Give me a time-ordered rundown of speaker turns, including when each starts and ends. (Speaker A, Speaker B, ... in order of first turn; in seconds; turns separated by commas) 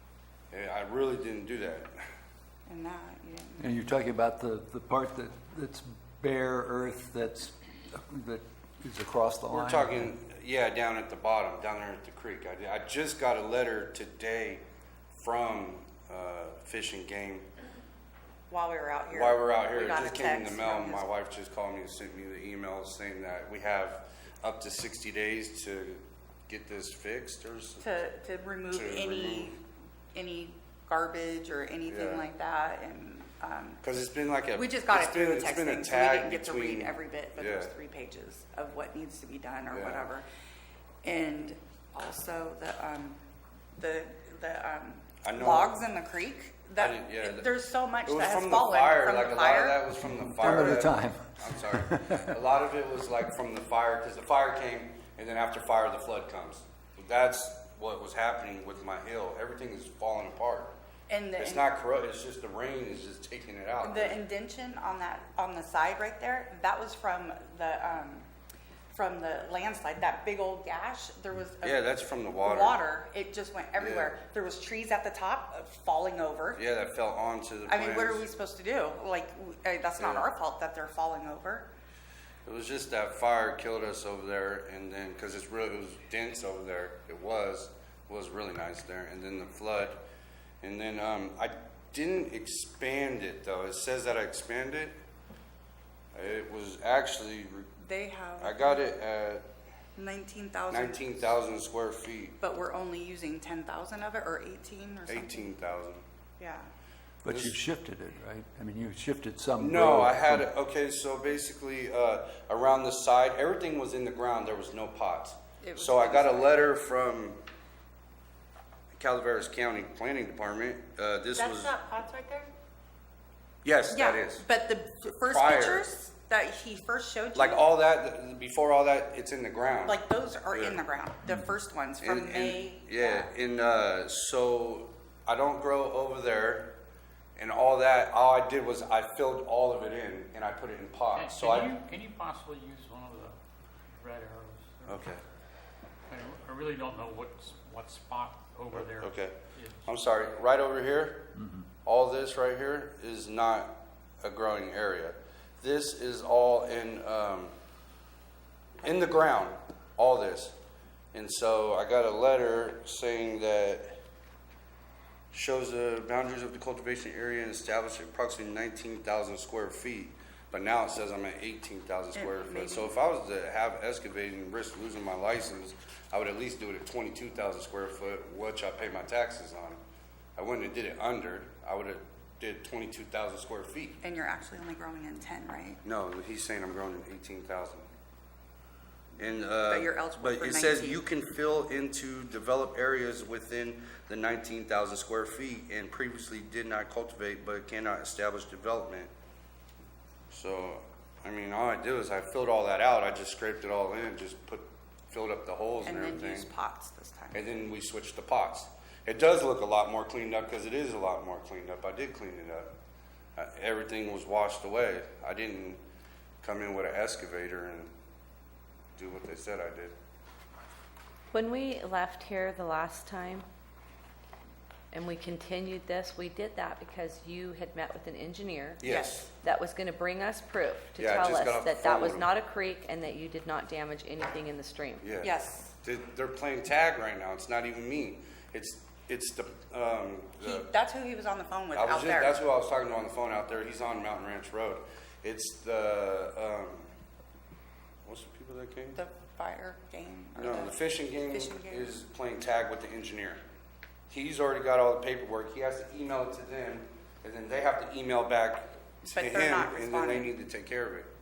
Speaker A: 0.5-2.0, Speaker B: 2.7-3.7, Speaker C: 3.6-10.1, Speaker A: 9.5-14.6, Speaker A: 15.2-17.5, Speaker B: 18.5-21.1, Speaker A: 19.1-27.9, Speaker B: 27.8-29.6, Speaker A: 28.7-29.6, Speaker B: 30.1-33.8, Speaker A: 31.9-32.3, Speaker A: 33.8-37.7, Speaker B: 34.5-40.3, Speaker A: 39.7-40.1, Speaker B: 41.0-43.2, Speaker B: 43.8-49.8, Speaker A: 45.2-45.8, Speaker A: 46.8-47.5, Speaker A: 48.1-60.8, Speaker B: 50.4-50.9, Speaker C: 50.4-52.3, Speaker B: 61.1-61.6, Speaker A: 61.4-64.2, Speaker B: 63.8-68.3, Speaker B: 68.9-71.8, Speaker A: 71.6-72.8, Speaker B: 72.4-76.6, Speaker A: 73.8-74.2, Speaker A: 76.6-78.3, Speaker B: 77.7-81.7, Speaker A: 80.0-80.3, Speaker A: 82.5-90.0, Speaker A: 90.6-95.0, Speaker A: 96.1-97.7, Speaker B: 97.8-98.9, Speaker A: 98.4-99.4, Speaker B: 100.0-101.1, Speaker A: 100.7-102.4, Speaker B: 102.4-105.5, Speaker A: 105.1-106.0, Speaker B: 106.4-106.7, Speaker C: 107.2-110.5, Speaker A: 107.3-107.6, Speaker A: 109.6-117.4, Speaker B: 115.6-116.6, Speaker A: 119.0-121.8, Speaker B: 121.3-122.5, Speaker A: 123.6-124.5, Speaker B: 123.9-127.6, Speaker A: 125.3-125.9, Speaker A: 127.3-130.0, Speaker B: 129.8-133.3, Speaker A: 130.5-130.8, Speaker A: 132.0-136.7, Speaker A: 137.4-141.8, Speaker D: 141.1-143.4, Speaker D: 143.9-145.1, Speaker A: 144.9-145.2, Speaker D: 146.1-150.0, Speaker A: 148.7-151.3, Speaker A: 151.8-157.5, Speaker A: 158.8-160.6, Speaker A: 161.1-164.0, Speaker A: 165.3-179.8, Speaker B: 172.2-172.9, Speaker A: 180.4-184.0, Speaker B: 184.0-185.8, Speaker A: 185.8-187.9, Speaker A: 189.2-199.1, Speaker B: 189.7-191.0, Speaker A: 200.3-206.5, Speaker B: 205.8-207.4, Speaker A: 207.3-212.7, Speaker A: 213.4-215.8, Speaker A: 216.4-217.9, Speaker A: 219.0-219.9, Speaker E: 221.3-223.5, Speaker E: 224.9-228.8, Speaker A: 228.8-229.3, Speaker B: 228.8-229.3, Speaker E: 229.4-235.0, Speaker A: 231.0-232.3, Speaker A: 235.0-240.7, Speaker B: 235.2-235.7, Speaker B: 240.4-242.4, Speaker A: 241.7-246.9, Speaker A: 248.1-249.0, Speaker B: 249.0-251.9, Speaker A: 250.4-253.4, Speaker A: 254.1-261.1, Speaker B: 259.1-260.3